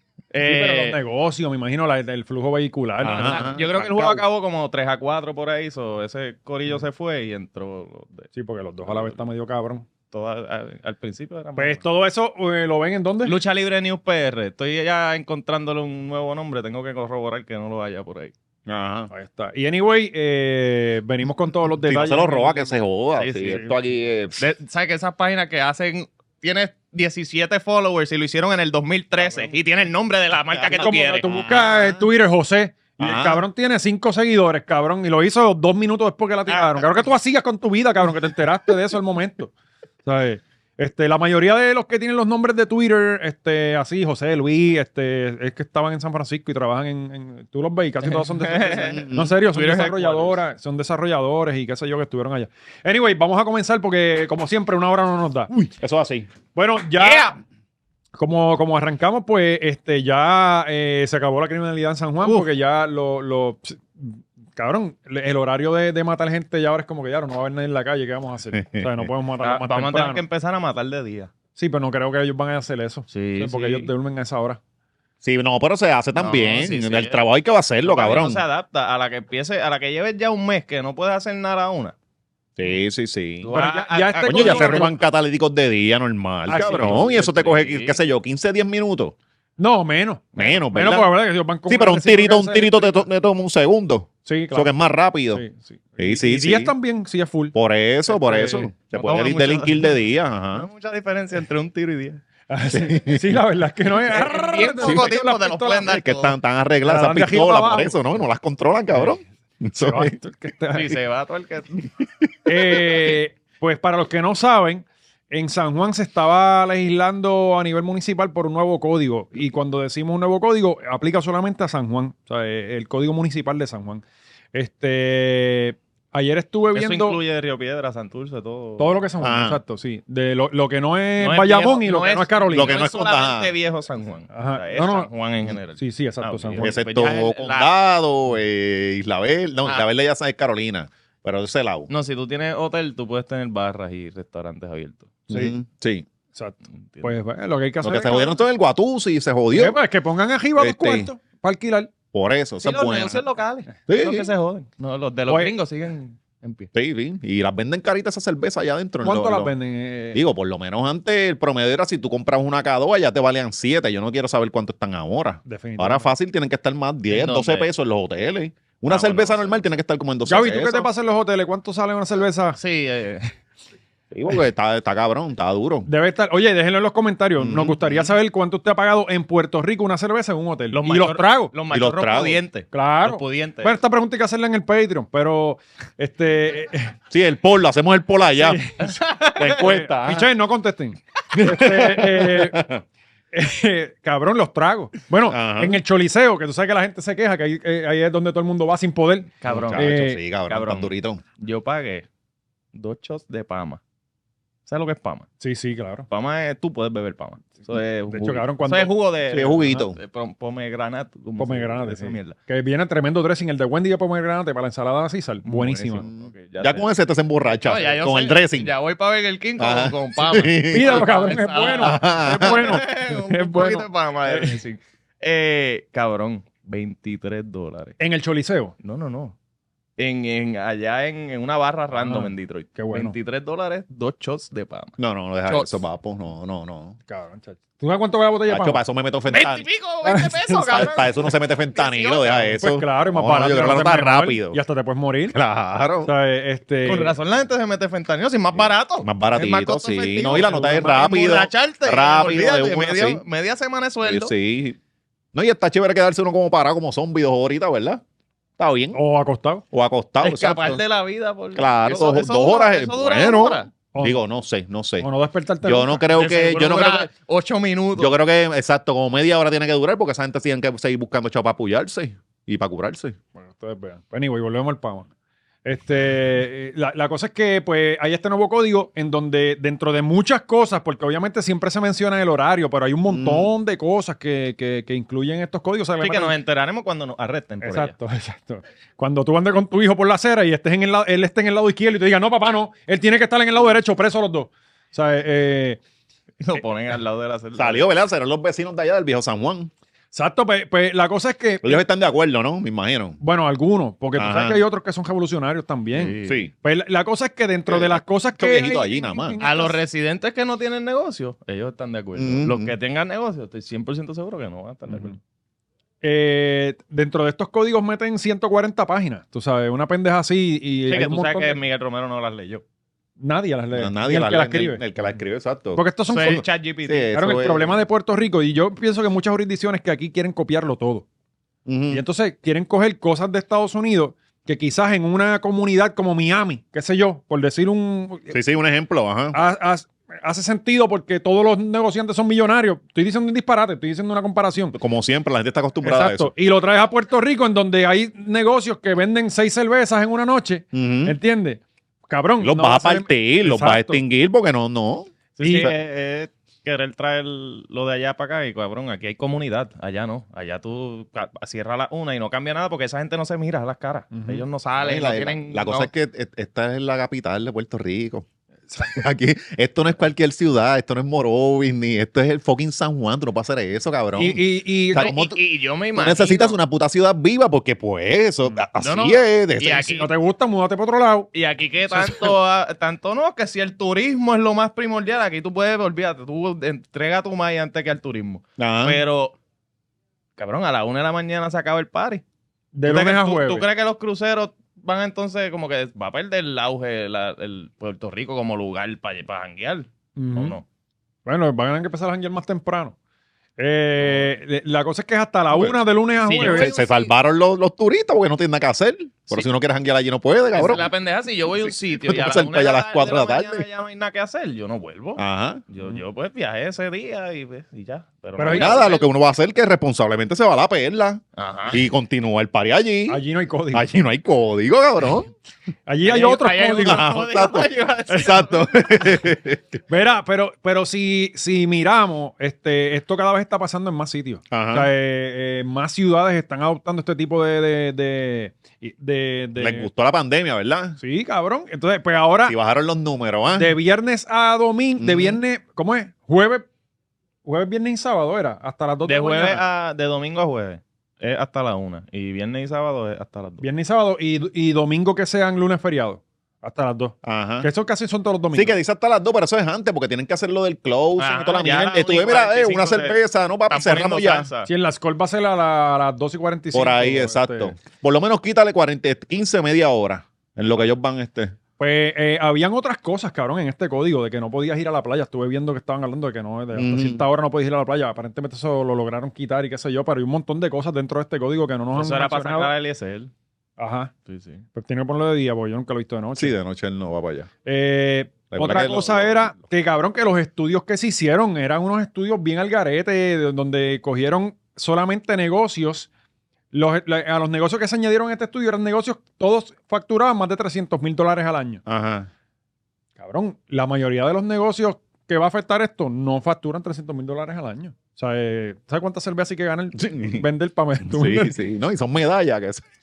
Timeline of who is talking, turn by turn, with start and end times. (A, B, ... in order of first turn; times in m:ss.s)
0:00.3-0:01.0 A
0:00.4-0:04.2 B
0:03.0-0:03.7 C
0:03.2-0:08.3 A
0:08.3-0:09.8 B
0:08.8-0:09.1 A
0:10.1-0:11.8 A
0:11.6-0:13.4 B
0:13.2-0:18.3 A
0:18.7-0:19.1 C
0:19.1-0:22.8 B
0:21.8-0:24.4 C
0:23.2-0:23.7 A
0:24.4-0:31.9 A
0:30.6-0:31.6 C
0:30.7-0:39.5 B
0:33.0-0:33.4 C
0:36.5-0:37.0 A
0:40.0-0:55.5 B
0:48.1-0:50.4 A
0:48.7-0:49.3 C
0:55.5-0:56.3 C
0:56.5-0:57.4 B
0:57.0-0:57.3 A
0:58.2-1:10.2 B
1:08.5-1:09.1 C
1:09.4-1:11.3 A
1:11.6-1:14.6 B
1:13.1-1:13.9 A
1:15.2-1:18.4 C
1:16.2-1:17.2 A
1:17.8-1:21.9 A
1:22.6-1:23.5 C
1:23.4-1:24.9 A
1:23.5-1:24.9 B
1:24.3-1:29.1 C
1:26.5-1:27.1 B
1:26.5-1:28.0 A
1:29.6-1:33.0 B
1:30.4-1:31.1 C
1:31.7-1:35.4 C
1:34.2-1:34.7 B
1:35.3-1:37.5 B
1:36.0-1:36.7 C
1:37.5-1:40.7 C
1:38.1-1:38.7 B
1:38.7-1:40.0 A
1:40.5-1:42.2 A
1:42.5-1:45.9 B
1:42.7-1:43.4 C
1:44.1-1:46.3 A
1:44.8-1:45.1 C
1:45.8-1:50.1 C
1:46.8-1:48.0 B
1:49.8-1:51.0 B
1:50.7-1:51.9 A
1:52.4-2:04.0 B
1:52.5-1:52.7 C
2:04.5-2:07.2 B
2:06.7-2:09.0 A
2:08.8-2:12.8 B
2:09.2-2:09.6 C
2:11.2-2:17.7 A
2:12.5-2:13.5 C
2:14.3-2:15.1 B
2:15.8-2:16.8 B
2:16.6-2:21.9 C
2:21.9-2:25.2 A
2:25.3-2:26.0 C
2:25.3-2:25.6 B
2:26.3-2:28.4 B
2:26.8-2:27.1 A
2:27.8-2:29.8 C
2:29.5-2:31.9 B
2:30.6-2:31.1 C
2:32.1-2:33.2 C
2:32.6-2:36.7 A
2:33.9-2:34.3 C
2:36.7-2:39.5 C
2:39.0-2:40.2 B
2:40.1-2:50.9 C
2:45.4-2:46.1 B
2:47.1-2:47.7 A
2:48.9-2:49.7 A
2:50.3-2:52.6 B
2:52.6-2:53.3 A
2:54.1-2:55.9 C
2:55.8-3:01.5 B
2:57.4-2:58.1 C
3:00.7-3:03.7 A
3:01.7-3:02.4 C
3:02.7-3:06.9 B
3:07.1-3:08.6 C
3:08.4-3:08.9 B
3:08.8-3:09.7 A
3:09.4-3:10.3 C
3:09.5-3:12.6 B
3:11.3-3:12.8 C
3:13.3-3:20.2 B
3:15.3-3:15.8 C
3:19.4-3:19.9 A
3:19.5-3:21.2 C
3:20.5-3:22.0 A
3:22.7-3:23.8 A
3:24.7-3:25.3 A
3:25.4-3:26.1 B
3:26.1-3:32.4 A
3:28.1-3:28.9 B
3:29.3-3:30.0 C
3:31.4-3:36.0 B
3:35.4-3:36.9 A
3:36.0-3:38.7 C
3:37.6-3:48.0 A
3:39.6-3:42.8 C
3:40.7-3:44.6 B
3:48.0-3:48.7 B
3:48.8-3:49.3 A
3:50.0-3:54.9 A
3:51.9-3:53.1 B
3:55.0-3:57.0 C
3:55.5-3:55.8 A
3:57.1-3:58.8 B
3:58.5-3:59.6 C
3:59.3-4:02.5 A
4:00.0-4:00.9 B
4:00.7-4:04.6 C
4:02.6-4:05.4 B
4:05.3-4:06.1 C
4:06.0-4:07.1 B
4:06.8-4:14.3 A
4:08.5-4:13.2 C
4:10.5-4:10.8 B
4:14.0-4:14.8 C
4:15.3-4:18.0 C
4:18.6-4:19.0 C
4:18.9-4:19.6 B
4:19.7-4:20.8 C
4:20.2-4:23.7 A
4:21.5-4:25.1 C
4:23.9-4:24.2 B
4:25.0-4:26.0 B
4:25.6-4:27.1 C
4:26.1-4:28.1 A
4:28.0-4:33.2 C
4:33.3-4:35.1 B
4:35.6-4:46.3 B
4:43.1-4:43.5 C
4:46.0-4:47.9 A
4:47.6-4:55.8 B
4:56.4-4:57.9 A
4:57.6-4:59.7 C
5:00.1-5:01.8 B
5:01.6-5:03.2 C
5:03.2-5:09.8 B
5:04.2-5:04.6 C
5:05.9-5:06.4 A
5:06.2-5:06.5 C
5:07.7-5:09.4 C
5:09.4-5:15.2 A
5:12.2-5:12.7 C
5:16.0-5:21.6 B
5:20.9-5:22.6 A
5:23.2-5:24.8 B
5:23.8-5:25.8 C
5:25.7-5:26.4 B
5:26.1-5:27.1 A
5:26.8-5:27.8 C
5:27.1-5:31.0 B
5:31.6-5:32.0 C
5:31.9-5:38.3 B
5:38.3-5:39.4 C
5:39.3-5:44.8 B
5:44.7-5:46.3 C
5:45.8-5:54.0 B
5:50.7-5:51.2 C
5:52.4-5:55.7 C
5:55.4-6:05.9 A
5:55.4-5:55.7 B
6:04.1-6:04.4 B
6:04.8-6:08.2 C
6:08.7-6:09.0 B
6:08.8-6:15.4 C
6:14.2-6:15.1 B
6:14.9-6:16.6 A
6:16.0-6:20.0 C
6:18.8-6:20.1 A
6:19.9-6:21.3 B
6:21.3-6:29.4 A
6:28.6-6:29.0 C
6:30.4-6:32.2 A
6:32.7-6:33.6 B
6:32.8-6:40.6 A
6:40.2-6:40.6 B
6:41.2-6:42.9 B
6:43.6-6:46.7 B
6:45.5-6:45.8 C
6:46.2-6:47.1 A
6:46.4-6:50.9 C
6:50.5-6:59.0 A
6:51.6-6:53.6 C
6:55.2-6:55.6 C
6:58.4-6:58.8 B
6:58.5-7:03.2 C
7:01.4-7:01.8 A
7:03.1-7:03.9 B
7:03.7-7:05.3 C
7:05.9-7:07.1 B
7:06.0-7:08.7 A
7:06.8-7:09.8 C
7:09.9-7:19.9 B
7:14.5-7:14.9 C
7:19.6-7:21.0 C
7:21.0-7:22.6 B
7:22.4-7:23.8 C
7:23.5-7:26.6 B
7:25.0-7:25.4 C
7:27.4-7:29.6 B
7:29.0-7:33.6 A
7:33.6-7:38.8 B
7:37.2-7:37.7 C
7:38.5-7:44.5 C
7:41.2-7:44.7 A
7:44.6-7:47.7 B
7:46.7-7:51.6 C
7:51.8-8:02.7 B
7:56.7-7:57.2 C
8:01.9-8:03.3 A
8:03.8-8:04.1 B
8:04.2-8:04.6 A
8:04.7-8:06.5 B
8:06.4-8:07.5 C
8:07.6-8:16.1 B
8:08.5-8:09.6 C
8:16.7-8:21.8 B
8:21.8-8:22.3 C
8:23.2-8:31.6 B
8:29.9-8:30.4 C
8:31.1-8:32.8 C